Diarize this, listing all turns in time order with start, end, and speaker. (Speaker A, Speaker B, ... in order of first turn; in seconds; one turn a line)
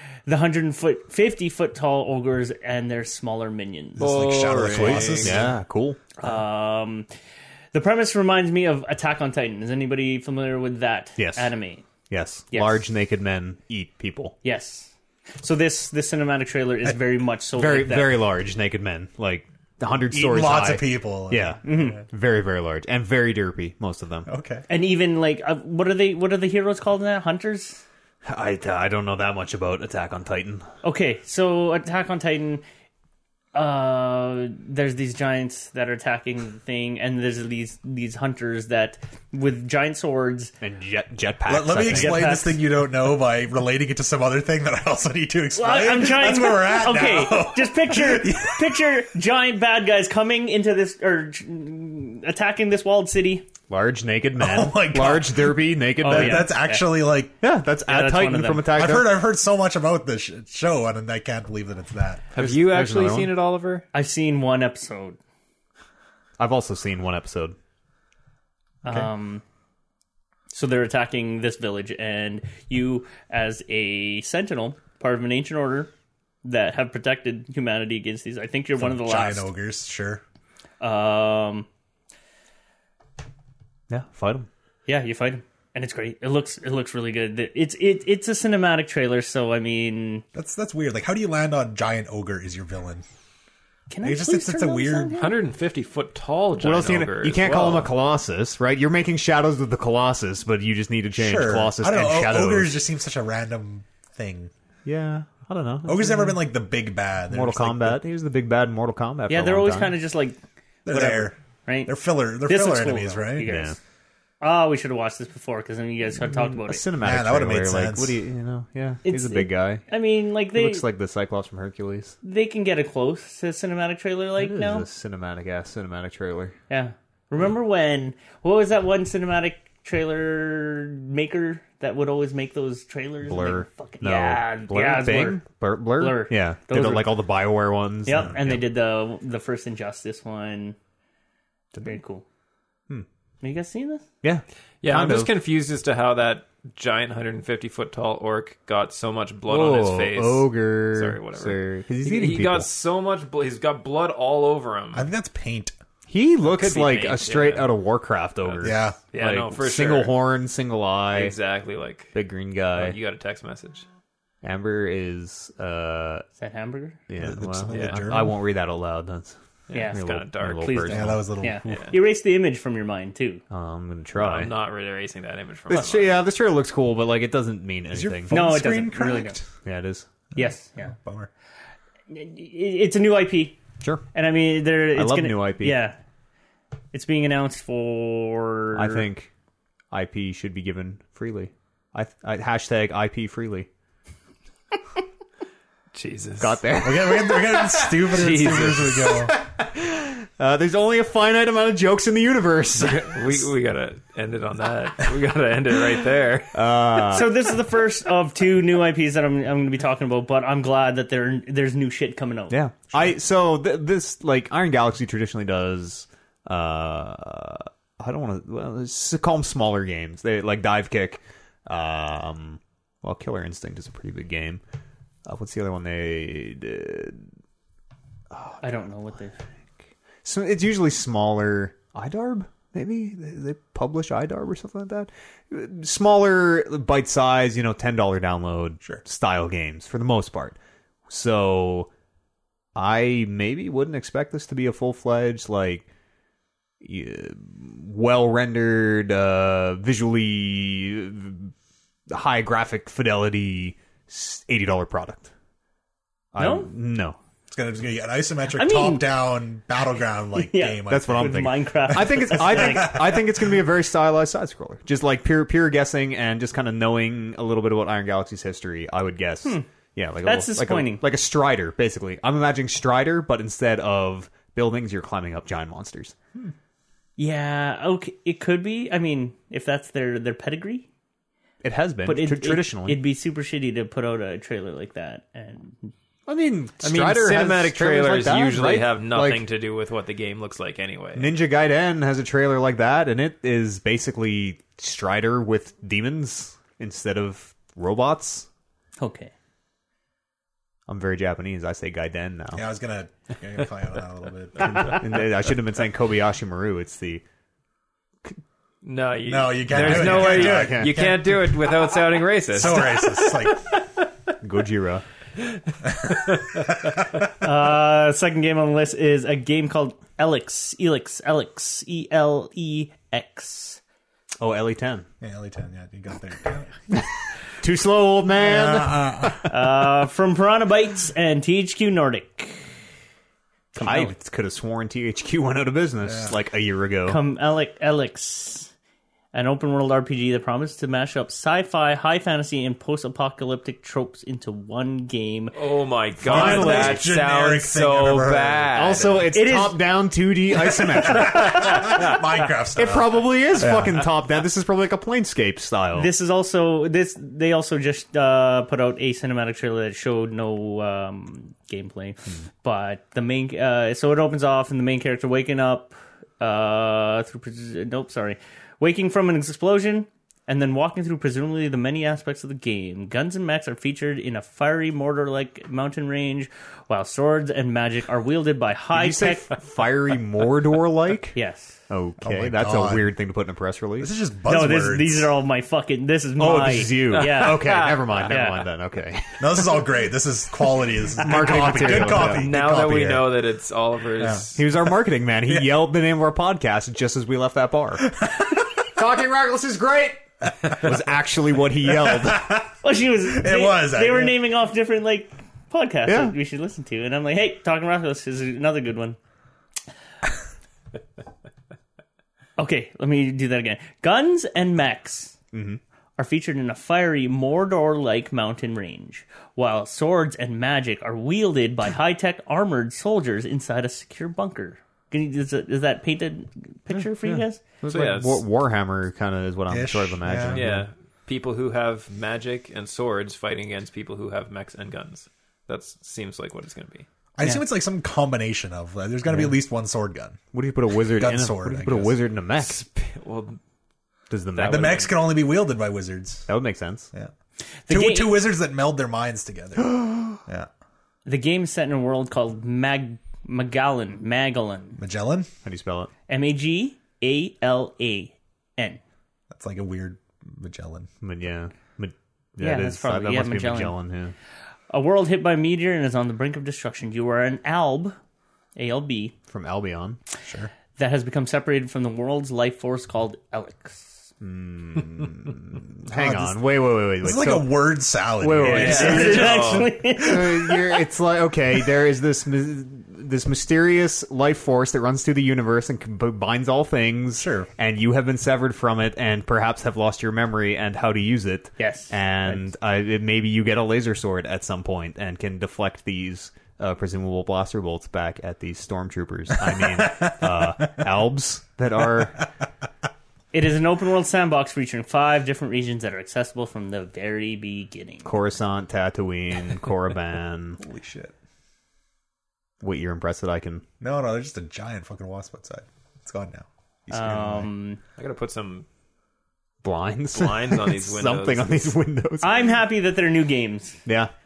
Speaker A: 0.3-4.0
Speaker B: 4.0-5.5
Speaker C: 4.0-5.5
Speaker D: 4.8-6.0
Speaker A: 6.2-7.1
Speaker A: 7.7-11.8
Speaker D: 11.2-11.5
Speaker D: 12.1-14.4
Speaker A: 12.5-12.8
Speaker A: 14.4-18.2
Speaker D: 17.6-24.3
Speaker B: 20.1-22.0
Speaker A: 21.6-22.0
Speaker B: 24.3-24.6
Speaker A: 24.7-27.8
Speaker D: 28.2-30.7
Speaker A: 30.8-32.6
Speaker A: 33.5-40.5
Speaker D: 40.6-42.2
Speaker B: 41.5-48.7
Speaker A: 41.8-42.6
Speaker A: 45.6-53.5
Speaker D: 53.7-56.5
Speaker B: 54.4-57.3
Speaker A: 56.0-57.0
Speaker D: 57.4-59.2
Speaker A: 57.9-58.7
Speaker B: 58.7-62.2
Speaker C: 62.3-63.9
Speaker D: 62.4-63.3
Speaker A: 63.9-65.2
Speaker D: 66.4-67.6
Speaker A: 68.8-69.4
Speaker A: 70.5-75.9
Speaker A: 76.4-79.5
Speaker B: 78.8-80.2
Speaker A: 80.8-81.7
Speaker D: 83.9-84.5
Speaker A: 84.9-90.2
Speaker B: 90.3-93.0
Speaker A: 93.9-95.4
Speaker B: 94.0-95.2
Speaker C: 95.2-97.9
Speaker D: 96.6-102.8
Speaker B: 101.1-104.5
Speaker D: 104.8-106.4
Speaker B: 105.9-108.0
Speaker D: 107.3-110.0
Speaker A: 109.3-111.9
Speaker B: 110.9-113.5
Speaker A: 112.5-113.8
Speaker D: 113.4-113.8
Speaker A: 114.4-116.8
Speaker D: 116.2-119.8
Speaker B: 117.0-118.2
Speaker A: 119.0-120.8
Speaker D: 120.5-122.2
Speaker A: 122.2-124.9
Speaker D: 124.4-126.5
Speaker A: 126.7-135.4
Speaker D: 133.2-138.7
Speaker A: 136.0-137.1
Speaker A: 138.1-140.8
Speaker A: 141.8-142.2
Speaker A: 143.4-144.1
Speaker D: 144.2-145.3
Speaker C: 144.8-155.1
Speaker D: 149.5-152.7
Speaker B: 154.9-155.7
Speaker D: 156.1-161.3
Speaker C: 156.4-157.7
Speaker C: 158.4-160.1
Speaker B: 158.6-159.0
Speaker C: 161.1-162.2
Speaker D: 162.1-163.0
Speaker C: 162.7-163.8
Speaker D: 164.4-166.2
Speaker A: 166.4-167.0
Speaker D: 167.1-169.4
Speaker B: 167.2-168.3
Speaker C: 167.7-168.1
Speaker C: 169.7-170.9
Speaker A: 169.7-170.1
Speaker D: 169.9-171.3
Speaker A: 170.6-173.4
Speaker B: 170.9-172.0
Speaker D: 173.5-174.5
Speaker C: 174.2-176.2
Speaker D: 175.7-178.4
Speaker B: 177.9-179.4
Speaker A: 178.3-179.4
Speaker D: 179.6-180.1
Speaker A: 180.3-180.9
Speaker B: 180.3-181.3
Speaker A: 182.1-183.6
Speaker A: 184.1-186.0
Speaker D: 184.9-185.8
Speaker A: 186.9-189.1
Speaker D: 188.8-189.3
Speaker D: 189.9-193.7
Speaker C: 195.9-196.6
Speaker D: 196.4-203.5
Speaker B: 196.8-199.3
Speaker C: 198.1-199.2
Speaker C: 202.8-206.6
Speaker D: 206.5-207.3
Speaker A: 207.0-212.6
Speaker D: 212.5-224.6
Speaker D: 225.3-227.3
Speaker D: 228.3-228.6
Speaker A: 228.6-229.3
Speaker D: 230.2-240.6
Speaker D: 241.1-241.9
Speaker D: 242.8-245.8
Speaker D: 246.8-251.5
Speaker D: 252.1-255.3
Speaker D: 256.3-257.2
Speaker A: 256.4-256.7
Speaker B: 257.5-263.2
Speaker A: 258.5-259.1
Speaker A: 260.4-263.1
Speaker D: 260.9-276.1
Speaker A: 270.2-271.0
Speaker A: 277.2-280.9
Speaker D: 281.6-283.0
Speaker A: 282.1-285.9
Speaker D: 286.3-289.4
Speaker C: 286.8-291.3
Speaker D: 291.2-298.5
Speaker A: 299.0-299.3
Speaker D: 300.9-302.6
Speaker B: 302.5-305.1
Speaker D: 304.6-307.2
Speaker C: 308.8-314.1
Speaker B: 309.3-311.6
Speaker D: 309.7-311.2
Speaker B: 312.5-313.6
Speaker D: 314.4-315.1
Speaker C: 315.4-316.8
Speaker A: 317.4-323.8
Speaker D: 324.4-325.1
Speaker B: 325.2-326.8
Speaker D: 327.6-329.7
Speaker B: 328.4-329.5
Speaker A: 329.5-332.7
Speaker D: 333.8-337.2
Speaker A: 333.8-334.1
Speaker B: 336.0-336.4
Speaker A: 337.1-338.7
Speaker A: 339.3-345.6
Speaker C: 345.6-349.3
Speaker B: 346.2-348.7
Speaker A: 346.3-347.0
Speaker D: 346.3-346.9
Speaker D: 348.7-352.1
Speaker A: 349.3-349.8
Speaker B: 351.0-354.1
Speaker A: 351.3-352.0
Speaker D: 352.7-356.1
Speaker A: 355.9-379.5
Speaker D: 378.9-381.4
Speaker A: 381.4-381.8
Speaker D: 381.9-384.1
Speaker B: 382.2-383.1
Speaker B: 384.0-385.3
Speaker A: 384.5-388.6
Speaker D: 386.4-389.9
Speaker C: 387.1-388.3
Speaker B: 389.4-393.4
Speaker D: 391.2-392.5
Speaker A: 391.5-392.1
Speaker C: 392.1-394.6
Speaker B: 394.2-394.5
Speaker D: 394.6-398.3
Speaker B: 395.4-395.7
Speaker D: 398.8-402.6
Speaker B: 401.9-404.4
Speaker A: 402.8-409.2
Speaker D: 406.1-406.4
Speaker A: 412.6-415.4
Speaker D: 415.5-415.8
Speaker A: 416.2-427.6
Speaker D: 426.9-430.9
Speaker C: 427.9-428.4
Speaker B: 429.7-430.7
Speaker C: 430.5-437.1
Speaker B: 437.4-440.4
Speaker D: 439.3-439.6
Speaker D: 440.5-442.8
Speaker B: 441.0-442.2
Speaker C: 442.6-443.6
Speaker D: 444.3-445.1
Speaker C: 444.6-445.2
Speaker B: 444.6-446.5
Speaker D: 446.5-447.1
Speaker A: 447.9-448.5
Speaker B: 447.9-450.7
Speaker D: 449.8-450.4
Speaker A: 451.3-455.0
Speaker B: 455.0-455.5
Speaker D: 455.6-456.1
Speaker A: 456.3-459.0
Speaker B: 459.5-461.1
Speaker D: 461.2-464.4
Speaker A: 462.6-464.0
Speaker A: 464.9-468.2
Speaker A: 468.8-469.4
Speaker D: 469.5-470.2
Speaker B: 470.4-470.7
Speaker A: 470.9-474.3
Speaker D: 474.4-477.8
Speaker B: 476.1-476.6
Speaker B: 477.2-479.9
Speaker D: 478.4-502.4
Speaker C: 478.6-479.9
Speaker A: 478.7-480.9
Speaker B: 487.4-487.7
Speaker A: 491.8-492.7
Speaker B: 499.8-500.3
Speaker A: 503.5-508.3
Speaker D: 508.2-510.8
Speaker B: 510.8-511.4
Speaker D: 512.8-513.8
Speaker B: 514.0-517.7
Speaker A: 517.1-518.0
Speaker C: 518.2-518.9
Speaker D: 519.8-522.7
Speaker C: 520.3-521.9
Speaker A: 522.4-524.0
Speaker D: 524.1-524.3